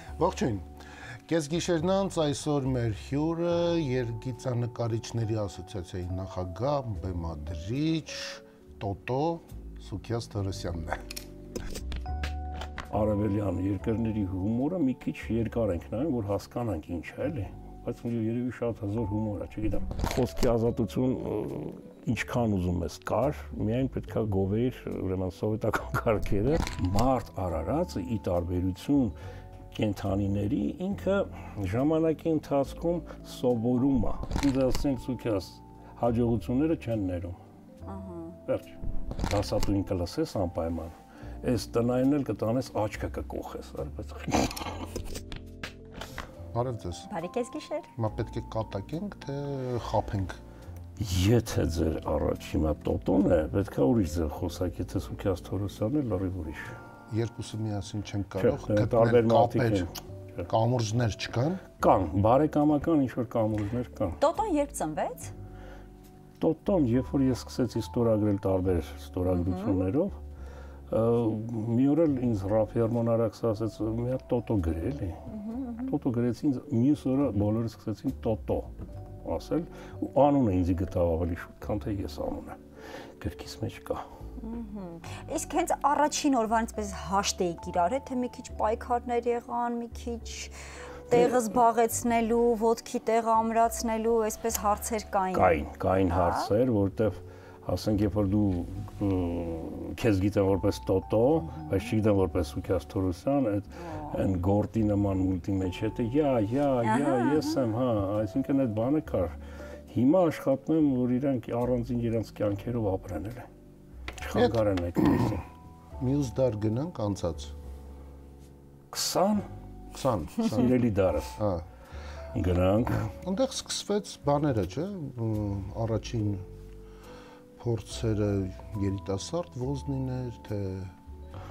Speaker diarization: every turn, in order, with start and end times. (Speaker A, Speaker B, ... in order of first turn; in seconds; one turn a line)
Speaker A: 0.2-0.7
Speaker A: 1.3-11.0
Speaker B: 12.9-29.1
Speaker B: 29.7-37.4
Speaker C: 37.9-38.4
Speaker B: 38.5-38.8
Speaker B: 39.3-44.8
Speaker A: 46.5-47.1
Speaker C: 47.1-47.9
Speaker A: 48.0-50.4
Speaker B: 51.0-56.8
Speaker A: 57.1-59.9
Speaker B: 58.4-60.5
Speaker A: 60.5-61.6
Speaker B: 61.8-64.2
Speaker C: 64.2-65.3
Speaker B: 66.4-70.1
Speaker C: 69.3-69.8
Speaker B: 70.9-75.2
Speaker C: 75.3-75.9
Speaker B: 75.8-78.7
Speaker B: 79.2-82.6
Speaker B: 83.2-84.0
Speaker C: 84.4-90.5
Speaker C: 91.1-96.5
Speaker B: 91.1-91.4
Speaker B: 95.3-109.4
Speaker C: 103.8-104.2
Speaker C: 106.8-107.6
Speaker B: 109.9-113.5
Speaker B: 114.2-115.4
Speaker A: 114.3-115.3
Speaker A: 116.0-117.5
Speaker B: 118.9-119.5
Speaker A: 119.9-120.8
Speaker B: 120.4-121.3
Speaker A: 121.3-121.7
Speaker B: 122.3-123.1
Speaker A: 122.9-126.5
Speaker A: 127.6-130.9